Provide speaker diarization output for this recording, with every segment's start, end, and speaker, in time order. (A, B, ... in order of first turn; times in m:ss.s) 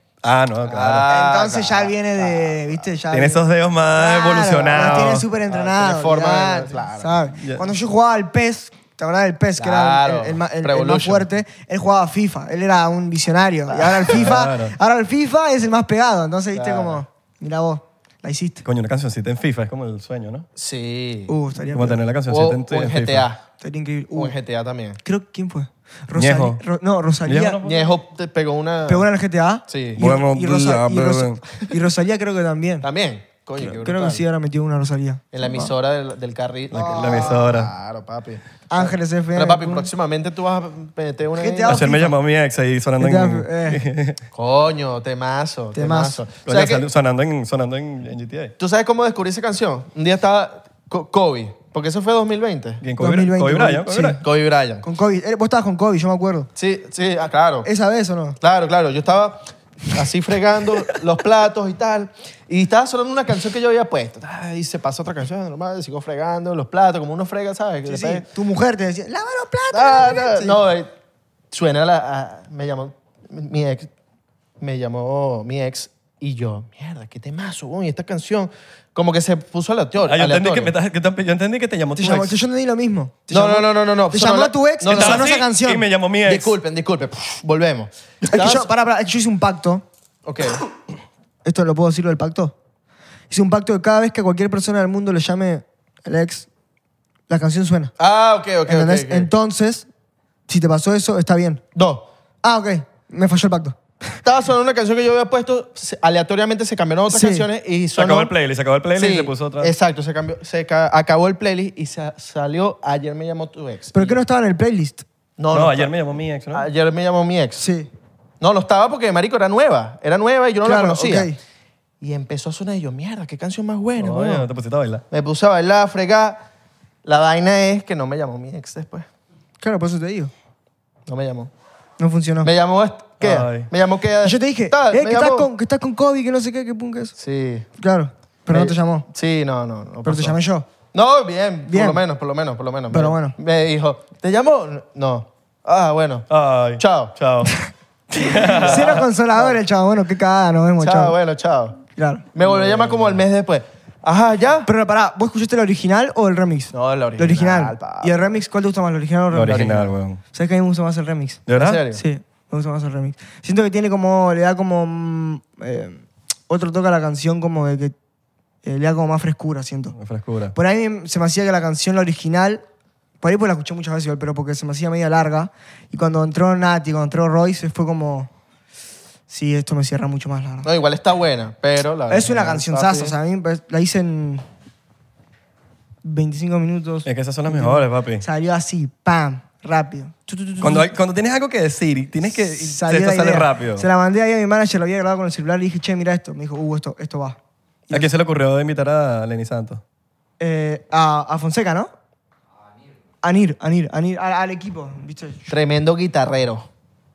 0:00.2-0:01.1 A
0:00.6-0:02.8 B
0:01.1-0:18.6 C
0:03.1-0:05.2 A
0:04.6-0:07.1 B
0:09.6-0:11.3 B
0:13.7-0:14.3 B
0:14.1-0:14.8 A
0:16.5-0:17.0 B
0:18.6-0:20.5 A
0:20.6-0:21.3 B
0:21.3-0:22.0 C
0:21.7-0:23.2 A
0:22.3-0:23.4 B
0:23.6-0:24.4 C
0:24.1-0:25.0 B
0:25.0-0:27.6 C
0:26.1-0:26.6 A
0:27.2-0:27.9 A
0:27.6-0:29.1 B
0:28.9-0:32.9 C
0:29.7-0:30.0 B
0:30.0-0:31.4 A
0:32.8-0:34.2 B
0:33.6-0:35.7 C
0:35.3-0:41.9 B
0:36.7-0:37.7 A
0:36.7-0:37.4 C
0:38.7-0:39.9 C
0:41.4-0:42.1 C
0:41.7-0:44.2 A
0:43.0-0:43.8 C
0:44.3-0:46.9 B
0:45.7-0:46.2 C
0:46.4-0:48.5 A
0:48.6-0:52.8 B
0:52.8-0:54.2 A
0:53.0-0:54.2 C
0:54.2-0:54.8 B
0:54.8-0:56.5 C
0:56.6-0:57.7 B
0:57.6-0:58.4 C
0:58.4-1:08.3 B
1:07.8-1:10.6 C
1:09.7-1:10.9 B
1:11.5-1:13.9 B
1:14.6-1:20.7 B
1:20.0-1:22.4 A
1:22.0-1:25.8 C
1:23.3-1:25.3 B
1:24.9-1:26.5 A
1:26.2-1:28.7 B
1:28.2-1:28.5 A
1:28.3-1:29.8 C
1:30.2-1:30.6 B
1:31.4-1:32.5 C
1:33.3-1:36.5 C
1:37.3-1:37.9 C
1:38.0-1:39.3 B
1:38.7-1:39.9 C
1:40.5-1:41.6 C
1:41.7-1:42.1 B
1:42.4-1:43.8 C
1:44.2-1:48.3 B
1:47.1-1:47.5 C
1:48.0-1:49.7 A
1:48.9-1:54.2 B
1:53.9-1:55.0 C
1:55.4-1:56.0 B
1:55.5-1:56.6 A
1:56.5-1:57.6 B
1:57.6-1:57.9 C
1:58.4-2:01.3 B
2:00.6-2:01.4 C
2:02.0-2:04.5 B
2:04.0-2:05.0 A
2:05.1-2:06.4 B
2:07.0-2:09.1 B
2:09.6-2:10.3 C
2:11.1-2:11.5 B
2:12.0-2:12.5 C
2:12.4-2:15.5 B
2:13.2-2:13.7 A
2:14.2-2:17.1 C
2:17.2-2:17.7 B
2:17.8-2:19.0 C
2:18.5-2:20.4 B
2:20.0-2:20.7 C
2:20.9-2:27.1 B
2:21.7-2:22.0 C
2:22.9-2:23.4 C
2:26.3-2:27.5 A
2:28.2-2:29.0 A
2:28.2-2:29.6 B
2:28.4-2:31.2 C
2:30.8-2:31.8 B
2:32.0-2:32.2 C
2:32.3-2:34.7 B
2:32.4-2:33.0 A
2:34.6-2:39.8 C
2:36.7-2:38.3 B
2:39.3-2:40.2 A
2:39.5-2:39.9 B
2:40.3-2:47.9 C
2:41.5-2:41.8 A
2:41.6-2:42.0 B
2:48.6-2:50.0 C
2:50.0-2:50.5 A
2:50.5-2:52.6 C
2:53.2-2:58.3 C
2:59.3-3:00.7 C
3:00.6-3:03.2 B
3:02.1-3:04.4 C
3:06.0-3:10.9 C
3:07.0-3:08.2 A
3:10.6-3:13.8 A
3:12.3-3:17.4 C
3:17.9-3:19.8 A
3:20.4-3:21.9 C
3:23.2-3:25.5 C
3:25.5-3:26.7 B